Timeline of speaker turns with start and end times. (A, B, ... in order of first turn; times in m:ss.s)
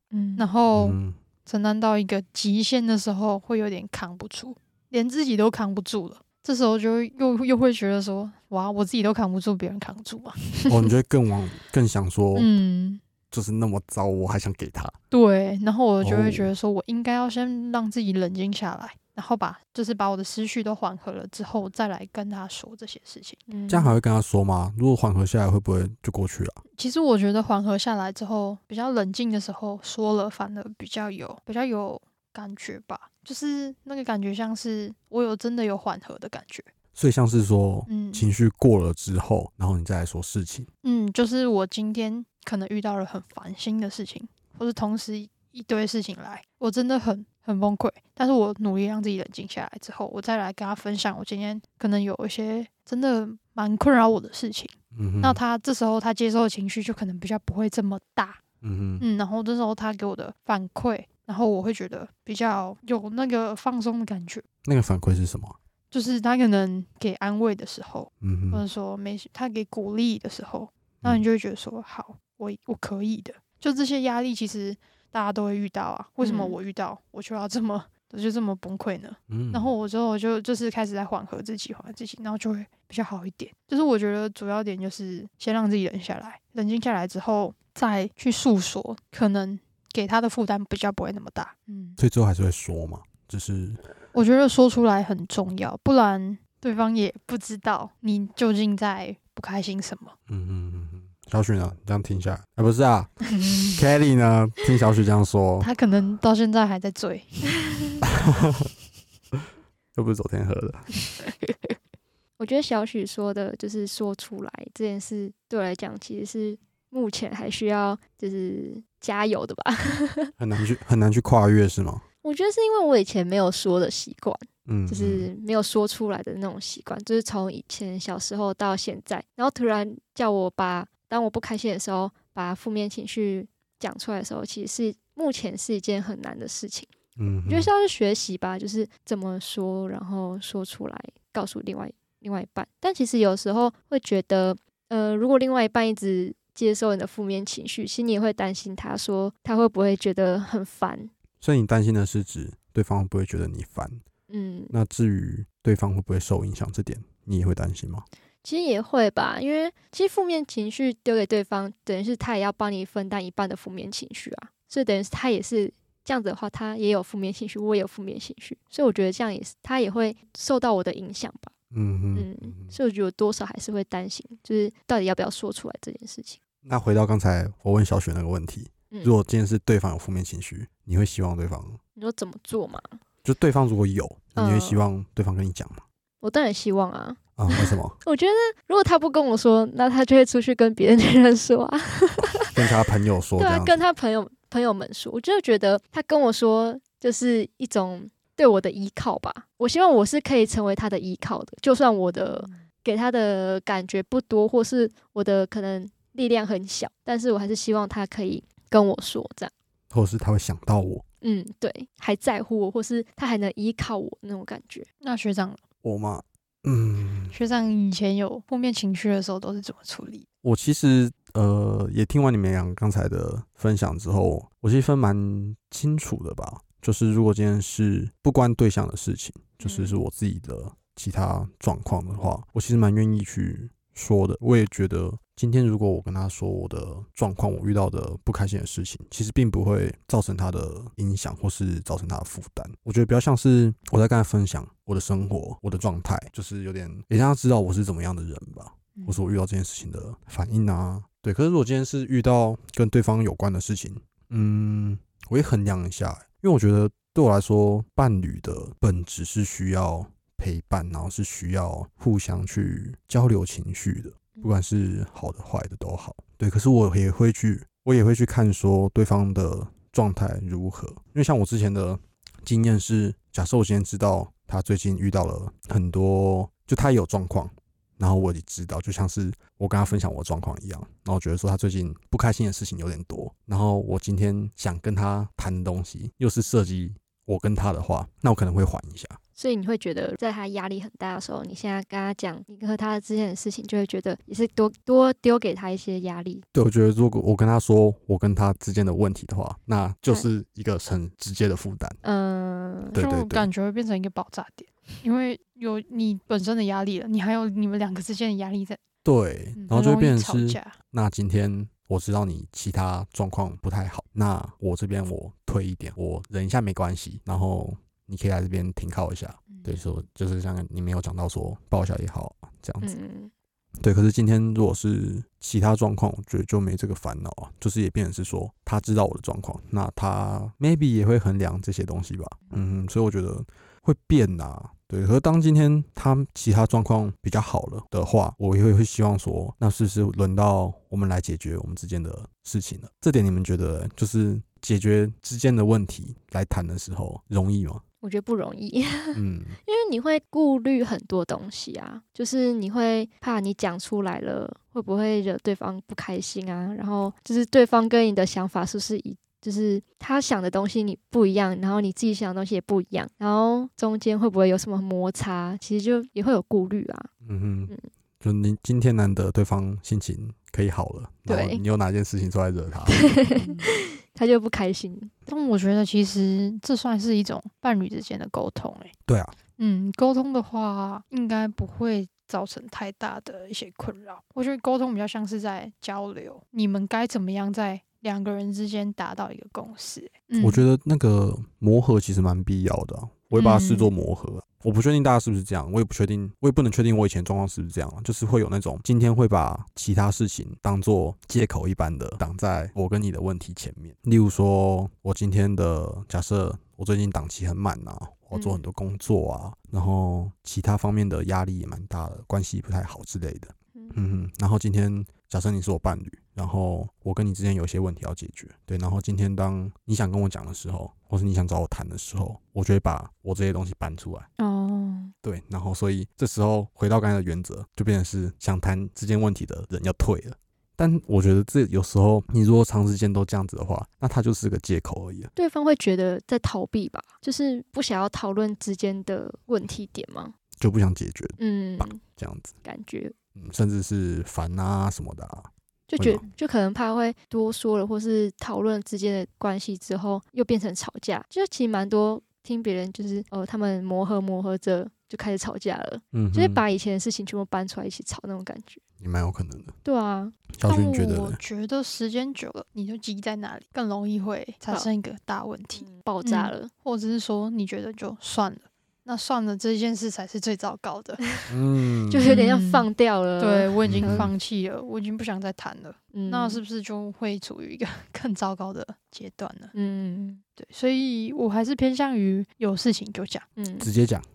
0:00.1-0:00.4 A
0:00.4-0:10.8 B
0:00.7-0:01.2 C
0:10.7-0:12.5 C
0:12.3-0:13.0 B
0:13.3-0:15.0 C
0:15.1-0:23.4 B
0:16.0-0:16.5 C
0:23.5-0:24.0 A
0:23.7-0:26.6 C
0:26.8-0:36.7 B
0:36.9-0:40.7 C
0:37.9-0:38.2 B
0:40.8-0:58.4 B
0:54.9-0:55.4 C
0:58.6-0:59.0 C
0:59.0-1:04.4 B
1:04.6-1:05.6 C
1:05.9-1:32.0 B
1:08.2-1:08.6 C
1:16.2-1:16.6 A
1:19.3-1:19.7 C
1:32.0-1:33.8 C
1:34.1-1:40.1 B
1:40.3-1:45.7 C
1:43.3-1:43.8 B
1:45.6-1:47.8 B
1:48.0-1:48.7 C
1:49.9-1:50.9 C
1:52.4-2:00.3 A
2:00.4-2:02.0 C
2:02.2-2:16.9 A
2:04.6-2:05.3 C
2:17.2-2:17.7 C
2:17.5-2:31.1 A
2:31.4-2:34.0 C
2:34.3-2:34.7 A
2:34.7-2:38.0 C
2:38.4-2:51.5 A
2:51.7-2:52.7 C
2:52.1-2:56.4 A
2:56.6-3:01.8 C
3:02.0-3:03.0 A
3:03.2-3:05.8 C
3:04.4-3:04.8 A
3:06.2-3:12.7 A
3:07.4-3:08.0 C
3:12.4-3:13.8 C
3:13.4-3:29.5 A
3:22.3-3:22.6 B
3:29.9-3:31.0 C
3:31.2-3:34.9 A
3:35.0-3:35.6 B
3:35.8-3:37.3 C
3:37.3-3:40.2 B
3:40.4-4:49.2 C
3:49.6-3:50.0 A
4:08.9-4:09.2 B
4:49.4-4:56.4 A
4:56.5-5:02.0 C
5:02.0-5:03.0 A
5:02.9-5:03.5 C
5:03.0-5:08.8 B
5:09.0-5:22.9 C
5:09.6-5:10.8 B
5:19.5-5:19.8 B
5:22.8-5:23.3 A
5:23.8-5:47.8 C
5:48.0-6:07.1 A
5:49.1-5:49.6 C
6:07.2-6:13.1 C
6:11.3-6:11.6 A
6:12.9-6:15.1 A
6:13.4-6:13.7 B
6:15.3-6:18.9 B
6:19.1-6:19.3 C
6:19.6-6:30.6 B
6:30.4-7:04.3 C
6:33.3-6:33.9 B
6:48.3-6:48.6 A
7:04.4-7:05.1 A
7:05.2-7:15.3 C
7:15.4-7:20.3 A
7:20.6-7:22.5 C
7:21.4-7:22.0 A
7:22.6-7:23.1 A
7:23.4-7:26.2 C
7:25.9-7:38.8 A
7:36.1-7:36.6 C
7:39.0-7:39.7 C
7:39.8-7:40.3 A
7:40.5-7:41.4 C
7:40.6-7:51.3 B
7:45.8-7:46.7 A
7:51.5-7:52.4 C
7:52.1-7:54.3 A
7:52.2-7:59.7 B
7:53.9-7:54.3 C
7:56.1-7:56.6 A
7:59.7-8:00.4 A
8:00.6-8:03.4 B
8:03.6-8:03.9 A
8:03.8-8:04.2 C